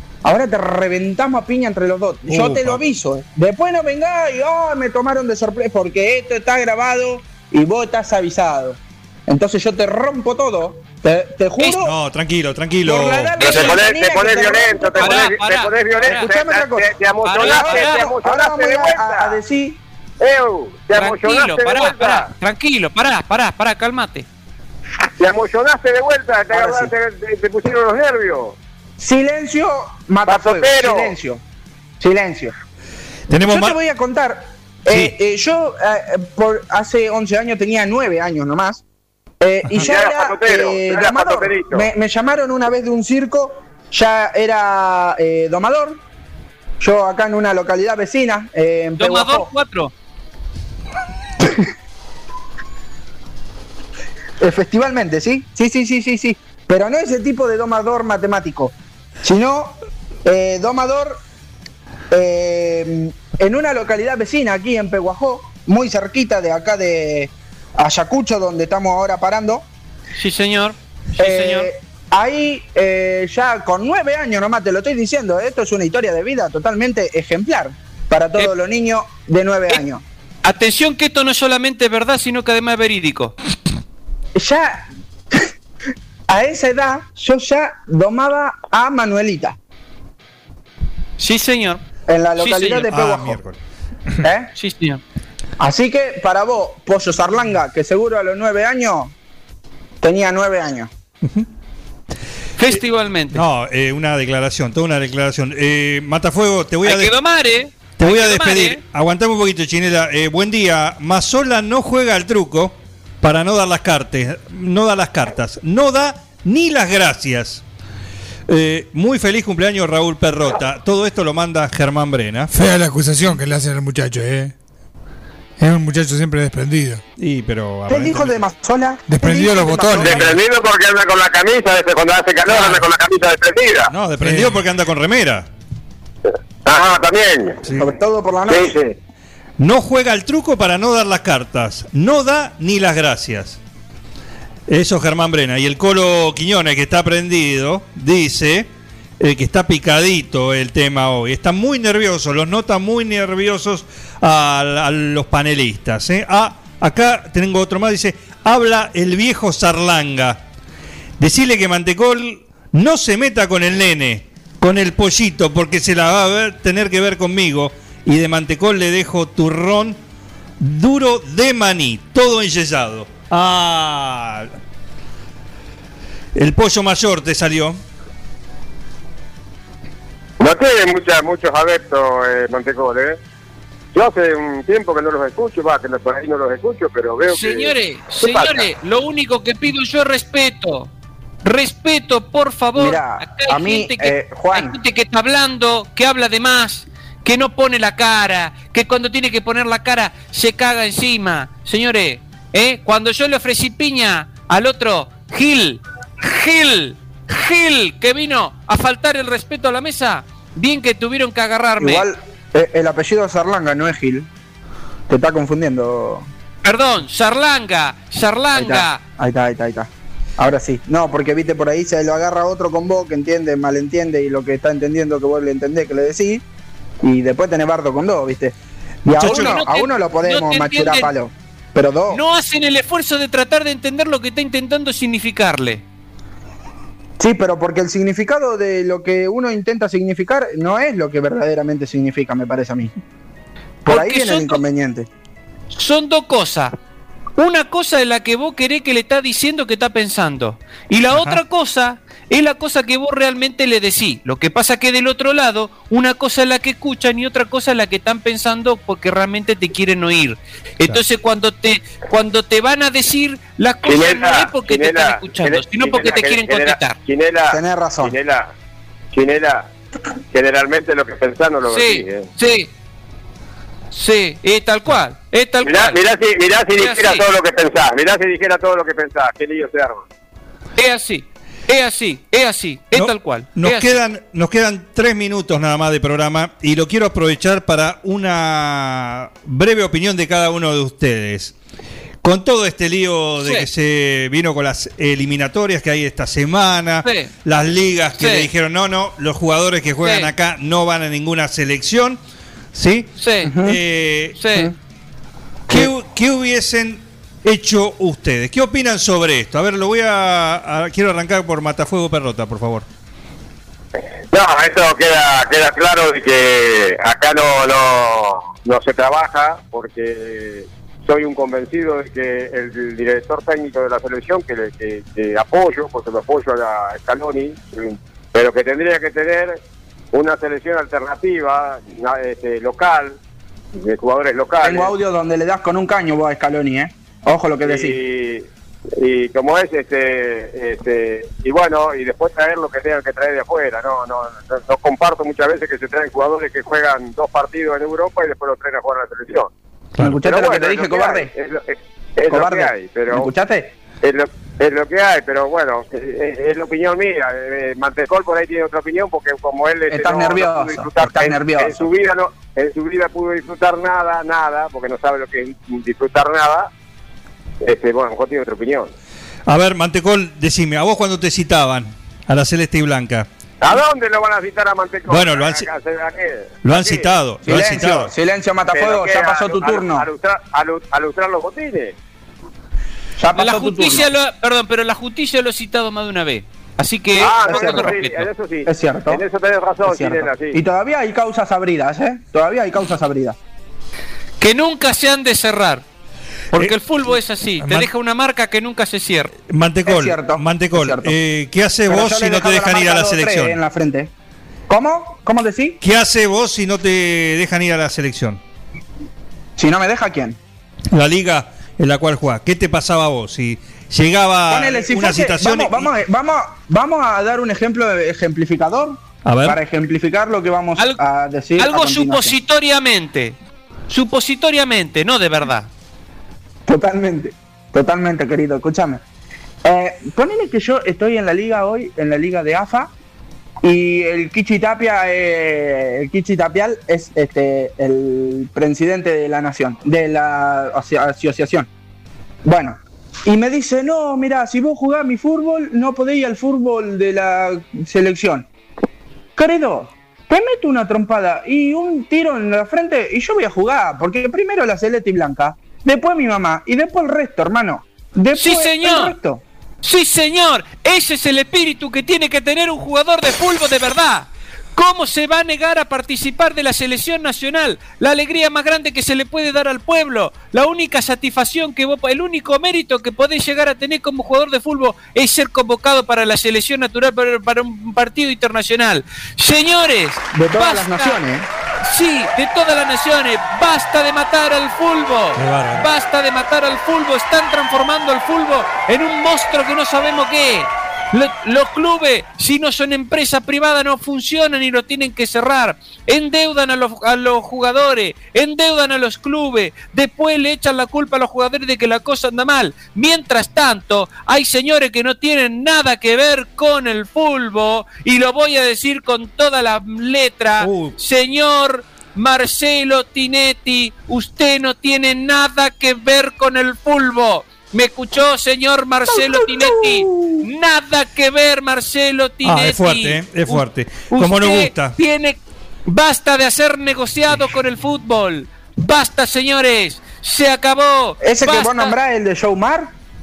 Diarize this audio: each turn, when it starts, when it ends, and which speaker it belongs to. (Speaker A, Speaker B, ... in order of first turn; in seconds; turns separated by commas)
Speaker A: 0.2-11.9, Speaker B: 2.3-2.8, Speaker B: 11.8-13.4, Speaker A: 12.8-15.3, Speaker C: 13.4-13.8, Speaker D: 13.4-19.4, Speaker C: 15.0-16.3, Speaker A: 16.0-19.8, Speaker C: 17.2-18.1, Speaker D: 20.2-22.3, Speaker C: 20.9-24.3, Speaker D: 25.2-28.6, Speaker A: 26.5-26.9, Speaker A: 29.0-31.4, Speaker D: 30.2-31.1, Speaker A: 32.0-32.5, Speaker B: 33.3-33.8, Speaker A: 33.4-38.8, Speaker B: 34.9-35.1, Speaker A: 39.4-46.0, Speaker D: 39.8-41.8, Speaker A: 46.8-49.5, Speaker C: 49.0-49.9, Speaker A: 54.4-61.2, Speaker A: 62.1-69.7, Speaker C: 70.2-71.7, Speaker A: 71.2-80.0, Speaker C: 80.4-83.3, Speaker A: 84.3-85.5, Speaker A: 86.3-89.6, Speaker C: 91.2-91.8, Speaker A: 92.1-93.4, Speaker C: 92.4-92.9, Speaker B: 92.9-93.5, Speaker A: 94.2-94.5, Speaker C: 94.5-95.0, Speaker A: 95.6-99.1, Speaker A: 100.0-100.9, Speaker C: 102.6-103.4, Speaker B: 103.3-107.1, Speaker C: 106.8-108.8, Speaker B: 108.0-117.6, Speaker B: 118.5-122.5, Speaker E: 122.5-124.5, Speaker E: 125.6-127.0, Speaker B: 127.2-128.4, Speaker A: 127.9-130.2, Speaker E: 129.1-130.0, Speaker B: 129.8-130.4, Speaker D: 130.0-133.9, Speaker B: 132.5-132.8, Speaker B: 133.9-135.5, Speaker E: 134.2-134.6, Speaker D: 136.6-137.6, Speaker B: 137.6-137.9, Speaker A: 137.8-138.8, Speaker D: 138.5-138.9, Speaker B: 139.6-143.6, Speaker B: 144.7-148.7, Speaker B: 149.2-160.4, Speaker B: 161.2-170.0, Speaker B: 170.6-174.5, Speaker B: 176.3-177.8, Speaker D: 180.4-183.2, Speaker D: 183.9-188.6, Speaker C: 187.3-190.9, Speaker C: 191.4-212.1, Speaker A: 192.8-194.8, Speaker A: 211.8-214.3, Speaker A: 215.1-216.3, Speaker C: 216.6-219.0, Speaker A: 218.5-226.4, Speaker A: 227.0-232.2, Speaker B: 229.1-229.6, Speaker C: 229.3-231.1, Speaker C: 232.1-235.8, Speaker A: 237.2-242.9, Speaker A: 243.8-245.1, Speaker C: 243.9-244.6, Speaker C: 245.7-246.7, Speaker C: 247.4-267.0, Speaker B: 251.1-251.4, Speaker D: 263.8-268.5, Speaker A: 267.5-268.1, Speaker D: 269.1-269.7, Speaker D: 270.3-272.3, Speaker C: 271.7-272.7, Speaker C: 273.9-276.0, Speaker D: 275.6-280.1, Speaker C: 276.8-277.2, Speaker C: 280.8-284.0, Speaker B: 282.9-291.5, Speaker B: 292.2-302.2, Speaker C: 293.4-293.7, Speaker C: 297.0-297.3, Speaker C: 298.2-298.5, Speaker C: 300.0-300.3, Speaker B: 302.7-304.4, Speaker C: 303.2-303.6, Speaker A: 303.4-303.8, Speaker C: 304.4-304.7, Speaker B: 305.7-312.9, Speaker D: 314.3-329.6, Speaker D: 330.1-333.2, Speaker D: 333.7-334.9, Speaker A: 334.6-338.0, Speaker D: 337.6-349.5, Speaker A: 350.0-351.3, Speaker D: 350.2-353.3, Speaker A: 352.3-353.7, Speaker D: 354.0-366.7, Speaker A: 359.9-361.9, Speaker D: 367.6-368.9, Speaker B: 369.5-373.3, Speaker D: 373.6-377.1, Speaker B: 375.1-375.7, Speaker B: 376.6-378.1, Speaker A: 377.4-380.1, Speaker D: 378.7-381.9, Speaker A: 383.2-384.1, Speaker C: 383.3-388.3, Speaker D: 387.2-390.6, Speaker A: 387.2-387.9, Speaker A: 388.6-389.2, Speaker A: 389.8-393.4, Speaker C: 394.4-395.8, Speaker C: 396.5-399.3, Speaker B: 397.6-397.9, Speaker B: 399.5-403.6, Speaker A: 399.8-401.1, Speaker A: 401.9-404.1, Speaker A: 404.7-405.8, Speaker B: 405.8-408.4, Speaker A: 409.6-410.4, Speaker B: 410.9-415.9, Speaker A: 414.5-422.3, Speaker B: 419.2-419.6, Speaker C: 421.6-423.4, Speaker C: 423.9-425.7, Speaker A: 426.6-429.0, Speaker A: 429.6-432.9, Speaker A: 433.6-441.7, Speaker A: 442.4-448.5, Speaker A: 449.4-459.4, Speaker C: 458.4-459.1, Speaker C: 459.8-481.2, Speaker A: 480.3-481.5, Speaker C: 481.8-531.9, Speaker B: 485.4-485.9, Speaker B: 510.6-510.9, Speaker A: 519.1-520.4, Speaker B: 522.4-524.9, Speaker A: 531.2-532.9